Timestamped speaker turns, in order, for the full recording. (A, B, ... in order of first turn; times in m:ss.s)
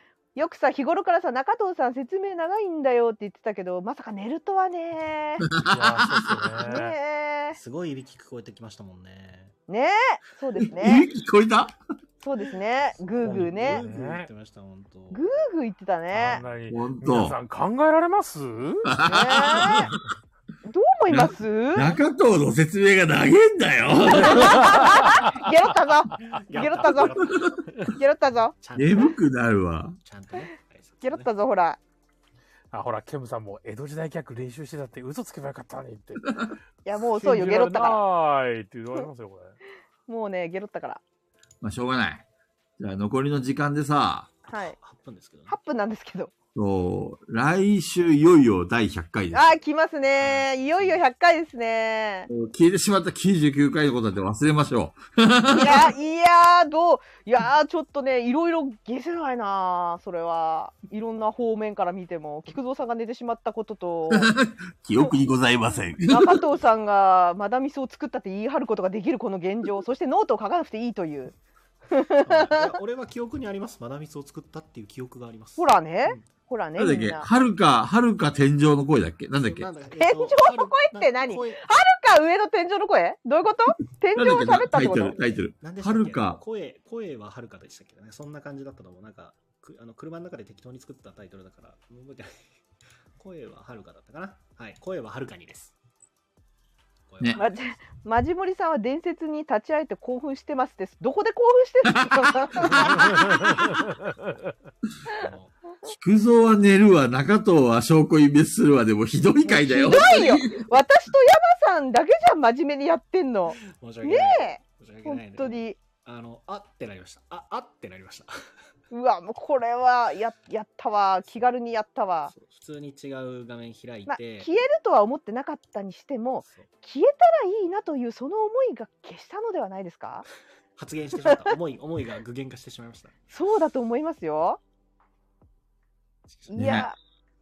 0:00.4-0:05.5 A
0:05.4-0:06.5 B
0:05.7-0:07.0 C
0:06.6-0:07.6 A
0:07.5-0:09.6 D
0:09.7-0:11.1 A
0:10.6-0:11.8 B
0:12.2-0:13.9 A
0:13.1-0:15.3 D
0:13.2-0:14.3 C
0:15.1-0:16.4 A
0:16.1-0:19.0 C
0:16.7-0:17.4 B
0:18.9-0:20.0 B
0:19.1-0:19.9 A
0:20.6-0:21.9 A
0:21.1-0:24.9 B
0:24.1-0:27.2 A
0:24.4-0:25.5 C
0:26.2-0:28.0 D
0:27.2-0:27.6 B
0:28.0-0:28.6 A
0:28.6-0:29.2 D
0:28.8-0:30.0 B
0:30.0-0:31.3 D
0:31.0-0:31.8 A
0:32.7-0:36.6 C
0:36.8-0:38.0 A
0:37.2-0:39.6 C
0:40.1-0:41.0 A
0:41.6-0:42.2 B
0:42.8-0:44.3 B
0:44.5-0:45.6 D
0:44.5-0:44.8 A
0:45.5-0:46.3 A
0:46.6-0:49.5 B
0:49.3-0:52.3 A
0:50.2-0:51.0 D
0:52.3-0:55.9 B
0:55.5-1:04.3 A
1:04.1-1:06.4 B
1:06.1-1:11.4 A
1:11.9-1:12.8 A
1:12.2-1:16.2 D
1:15.6-1:17.3 A
1:16.8-1:19.7 B
1:19.4-1:21.6 D
1:20.0-1:25.2 A
1:24.2-1:26.4 B
1:25.6-1:32.6 D
1:33.2-1:35.8 D
1:37.1-1:37.8 D
1:37.4-1:43.4 A
1:41.9-1:43.2 B
1:45.1-1:45.6 D
1:45.8-1:50.7 B
1:49.4-1:55.8 A
1:53.6-1:58.4 D
1:58.9-2:02.3 A
2:02.3-2:04.5 D
2:04.1-2:10.2 A
2:10.8-2:13.2 D
2:13.3-2:14.6 A
2:16.5-2:16.9 B
2:16.5-2:17.0 A